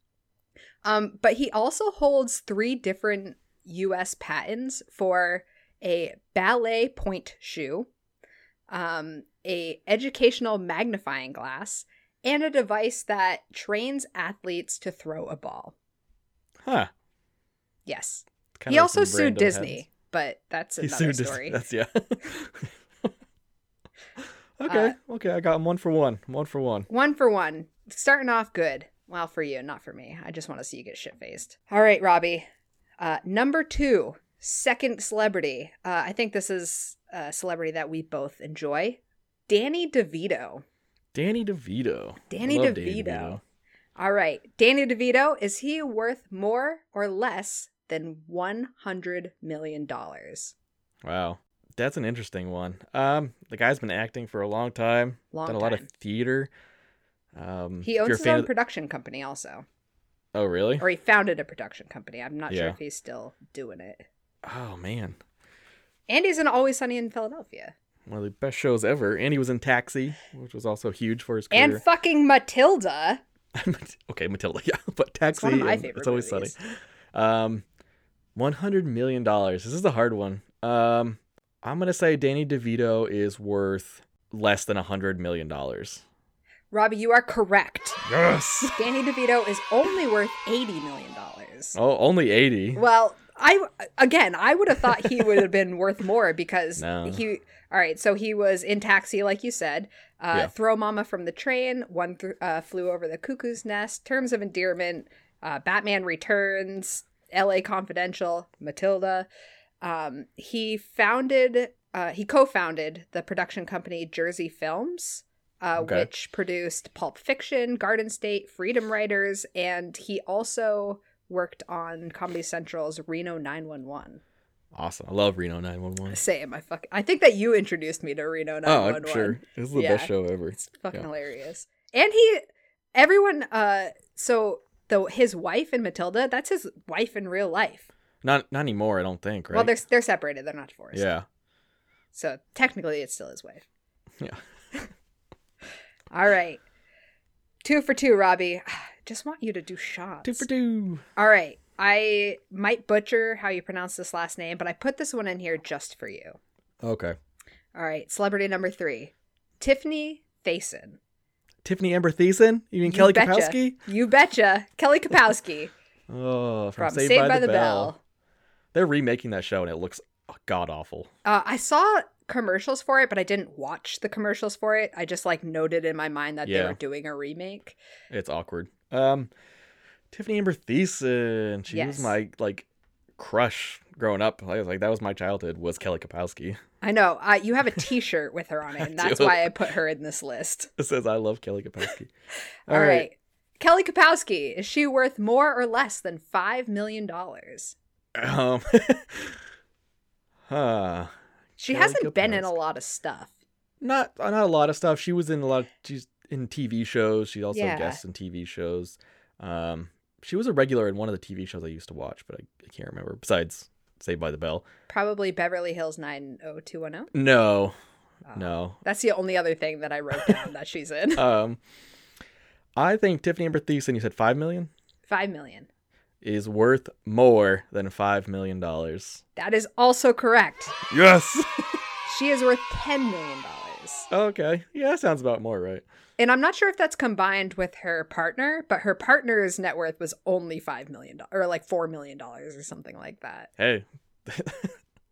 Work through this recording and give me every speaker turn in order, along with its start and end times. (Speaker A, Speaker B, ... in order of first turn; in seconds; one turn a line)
Speaker A: 0.8-7.9
Speaker A: 8.7-15.7
Speaker B: 16.6-16.9
Speaker A: 17.9-21.6
Speaker B: 18.6-19.8
Speaker B: 20.8-22.7
Speaker B: 24.6-26.9
Speaker A: 24.7-24.9
Speaker A: 26.9-32.5
Speaker A: 33.0-40.6
Speaker B: 41.1-43.4
Speaker A: 42.3-43.4
Speaker A: 44.0-50.5
Speaker B: 51.0-56.5
Speaker A: 55.3-55.9
Speaker B: 57.3-58.5
Speaker A: 57.8-59.6
Speaker B: 60.3-60.8
Speaker A: 60.8-64.1
Speaker B: 62.5-62.8
Speaker B: 64.4-65.2
Speaker A: 66.1-67.7
Speaker B: 68.1-71.8
Speaker A: 71.5-73.2
Speaker B: 73.5-76.6
Speaker A: 75.3-76.5
Speaker B: 77.1-77.6
Speaker B: 78.3-86.0
Speaker A: 86.7-88.0
Speaker B: 88.0-88.8
Speaker A: 88.7-91.8
Speaker B: 91.7-92.8
Speaker A: 92.7-109.3
Speaker B: 96.8-97.2
Speaker A: 109.8-124.2
Speaker B: 115.8-116.1
Speaker B: 124.7-126.2
Speaker A: 126.1-137.9
Speaker B: 128.7-131.1
Speaker B: 138.2-139.7
Speaker A: 139.5-141.1
Speaker B: 140.9-141.2
Speaker A: 142.1-143.6
Speaker A: 146.1-146.6
Speaker A: 147.6-150.5
Speaker B: 150.2-151.0
Speaker A: 151.2-156.4
Speaker B: 156.8-157.2
Speaker A: 157.7-161.0
Speaker B: 161.6-163.8
Speaker A: 162.8-165.7
Speaker B: 166.1-167.9
Speaker A: 166.8-168.0
Speaker B: 168.7-171.1
Speaker A: 171.2-177.8
Speaker B: 176.4-176.8
Speaker B: 178.1-179.3
Speaker B: 180.1-182.7
Speaker A: 181.7-182.1
Speaker B: 183.2-186.6
Speaker A: 186.8-190.7
Speaker B: 188.8-189.5
Speaker B: 190.8-192.1
Speaker B: 192.7-193.1
Speaker A: 192.7-197.8
Speaker B: 198.1-199.3
Speaker B: 200.5-201.1
Speaker A: 201.6-203.3
Speaker B: 201.7-202.5
Speaker B: 203.8-214.6
Speaker A: 207.5-208.0
Speaker A: 214.9-217.1
Speaker B: 217.1-217.7
Speaker A: 218.2-221.2
Speaker B: 218.3-218.8
Speaker B: 221.2-221.6
Speaker B: 222.8-224.7
Speaker A: 225.1-225.7
Speaker B: 226.2-229.2
Speaker A: 229.3-230.8
Speaker B: 230.9-231.4
Speaker A: 232.1-234.1
Speaker B: 234.1-235.8
Speaker A: 236.2-243.5
Speaker B: 243.6-244.7